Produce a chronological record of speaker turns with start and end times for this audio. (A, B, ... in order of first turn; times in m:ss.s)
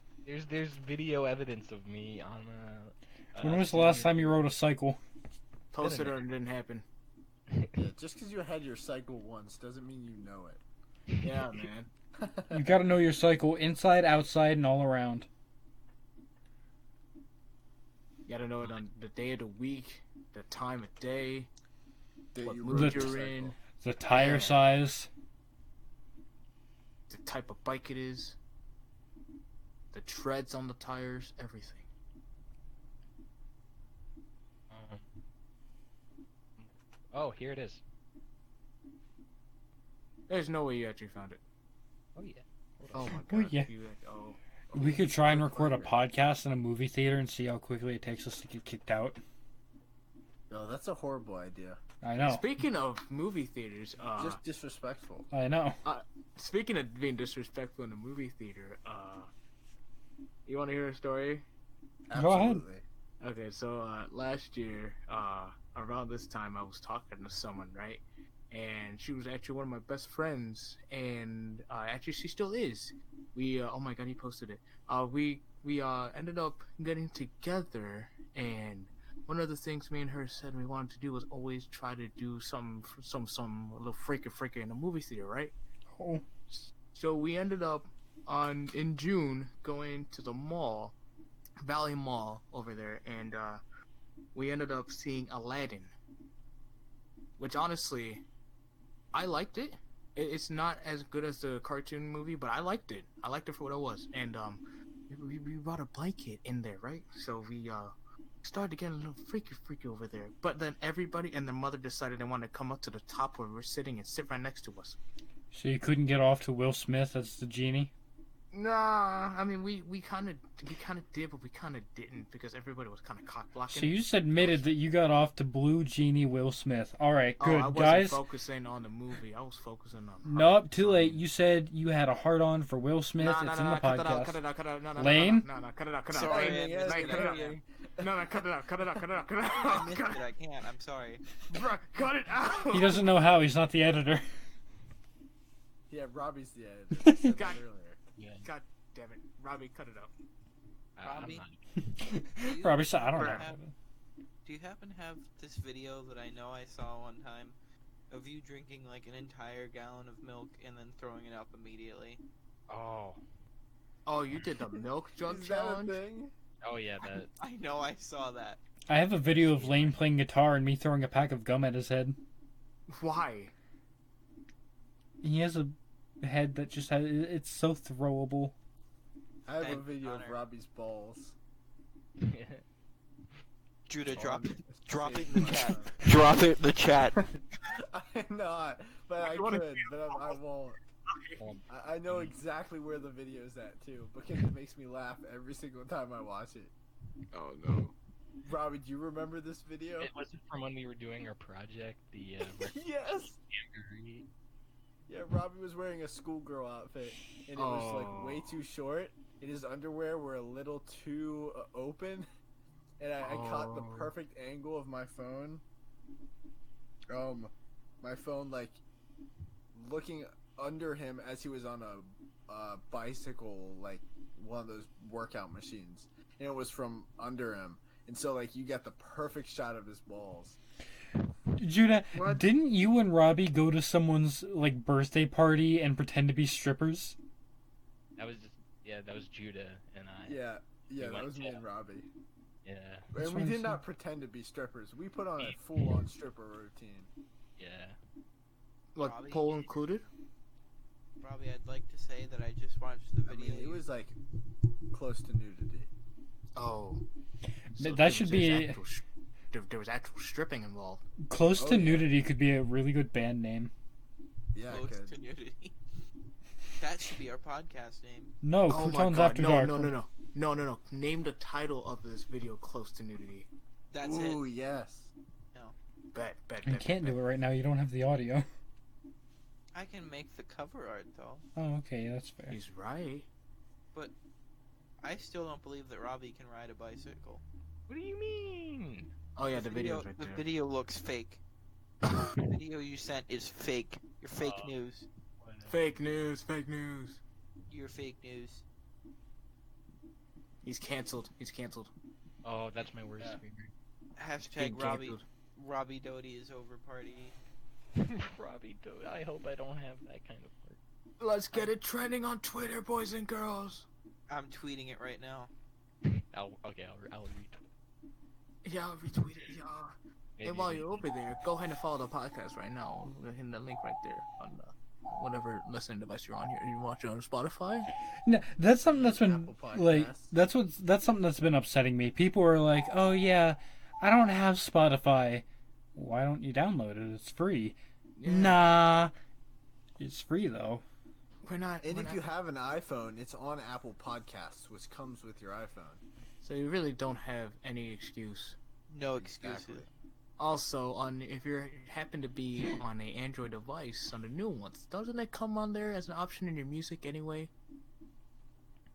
0:00.2-0:04.4 A
0:03.4-0:05.0 B
0:05.7-0:06.8 C
0:05.8-0:06.2 A
0:07.5-0:07.8 A
0:07.7-0:10.6 D
0:11.2-0:11.9 C
0:12.2-0:12.8 D
0:12.5-0:15.3 B
0:18.3-0:21.5 C
0:22.4-0:23.6 D
0:22.4-0:23.6 C
0:22.7-0:23.2 B
0:23.8-0:25.1 B
0:24.1-0:24.6 C
0:27.1-0:28.4 C
0:29.9-0:31.9 C
0:34.7-0:35.1 A
0:36.6-0:37.8 A
0:40.3-0:41.4 C
0:42.2-0:43.2 A
0:42.9-0:46.0 C
0:43.2-0:43.7 B
0:44.7-0:49.2 B
0:50.5-0:51.8 D
0:52.0-0:52.5 B
0:52.2-0:54.4 C
0:54.2-0:55.3 D
0:55.3-0:55.8 B
0:55.8-0:59.3 C
1:00.5-1:01.4 C
1:02.1-1:02.8 D
1:02.1-1:02.6 B
1:03.2-1:25.5 C
1:25.9-1:26.2 B
1:26.8-1:31.0 C
1:31.6-1:33.6 C
1:34.3-1:35.9 C
1:37.4-1:38.2 C
1:39.1-1:55.0 C
1:55.5-1:57.9 B
1:58.5-2:04.6 C
2:03.7-2:08.2 B
2:07.4-2:11.1 C
2:10.2-2:14.4 B
2:13.2-2:20.3 C
2:15.0-2:15.5 B
2:16.1-2:17.6 E
2:16.2-2:18.2 D
2:19.6-2:21.2 E
2:21.5-2:23.1 C
2:22.7-2:24.2 B
2:25.9-2:28.0 D
2:27.0-2:27.4 B
2:27.3-2:27.6 C
2:28.2-2:28.5 A
2:28.4-2:30.1 C
2:31.0-2:31.6 A
2:31.0-2:31.4 E
2:31.9-2:33.7 B
2:32.4-2:33.6 E
2:33.2-2:33.4 C
2:34.4-2:37.6 E
2:38.1-2:42.2 E
2:42.7-2:43.2 A
2:44.1-2:46.0 C
2:44.7-2:46.3 D
2:46.6-2:47.3 A
2:47.0-2:48.6 E
2:48.9-2:52.2 B
2:49.3-2:50.0 A
2:52.9-2:53.5 C
2:55.2-2:58.6 B
2:59.4-3:01.4 D
2:59.6-3:00.4 E
3:02.2-3:02.6 A
3:03.9-3:07.3 E
3:04.2-3:06.0 D
3:07.7-3:10.8 D
3:09.2-3:10.3 C
3:11.1-3:11.4 C
3:11.4-3:12.4 A
3:11.7-3:16.7 D
3:17.3-3:17.9 C
3:18.4-3:20.1 D
3:20.0-3:22.8 A
3:22.6-3:23.4 D
3:23.5-3:24.3 A
3:25.1-3:32.3 D
3:27.6-3:28.4 C
3:33.0-3:35.6 D
3:33.2-3:34.1 C
3:37.1-3:38.8 D
3:39.7-3:50.6 D
3:51.6-3:57.2 B
3:52.1-3:52.5 C
3:58.2-4:00.4 A
4:00.2-4:02.1 D
4:01.0-4:01.6 A
4:02.6-4:03.1 A
4:03.1-4:07.1 D
4:03.2-4:03.8 B
4:05.4-4:06.0 A
4:07.6-4:08.0 A
4:09.0-4:10.0 C
4:09.0-4:09.8 E
4:11.2-4:13.8 E
4:13.3-4:14.2 D
4:14.9-4:15.9 D
4:16.6-4:17.0 C
4:17.8-4:18.8 B
4:17.8-4:21.0 C
4:21.3-4:23.7 B
4:21.6-4:22.1 D
4:24.5-4:25.1 D
4:24.7-4:25.7 E
4:26.8-4:28.3 E
4:28.4-4:29.9 B
4:28.7-4:33.5 C
4:33.9-4:34.4 E
4:34.0-4:35.1 D
4:36.1-4:37.2 C
4:36.6-4:38.5 B
4:39.7-4:41.4 E
4:41.6-4:42.6 B
4:42.5-4:43.3 C
4:45.0-4:47.4 E
4:47.9-4:49.1 A
4:49.4-4:50.4 C
4:49.5-4:51.4 E
4:52.1-4:52.4 C
4:52.4-4:55.1 E
4:54.4-4:54.8 A
4:55.4-4:55.8 A
4:55.7-4:57.2 C
4:57.7-4:58.6 E
5:00.6-5:01.9 C
5:02.4-5:03.7 A
5:04.2-5:07.4 E
5:04.5-5:05.2 C
5:08.0-5:10.8 A
5:11.2-5:13.9 C
5:14.3-5:15.5 E
5:16.0-5:17.6 A
5:18.6-5:27.9 C
5:20.4-5:21.0 A
5:28.3-5:39.1 B
5:28.8-5:30.3 D
5:38.2-5:38.7 C
5:40.0-5:40.8 B
5:41.4-5:42.3 C
5:41.8-5:46.0 D
5:46.4-5:48.6 C
5:48.9-5:49.9 E
5:49.1-5:49.9 D
5:50.4-5:57.5 C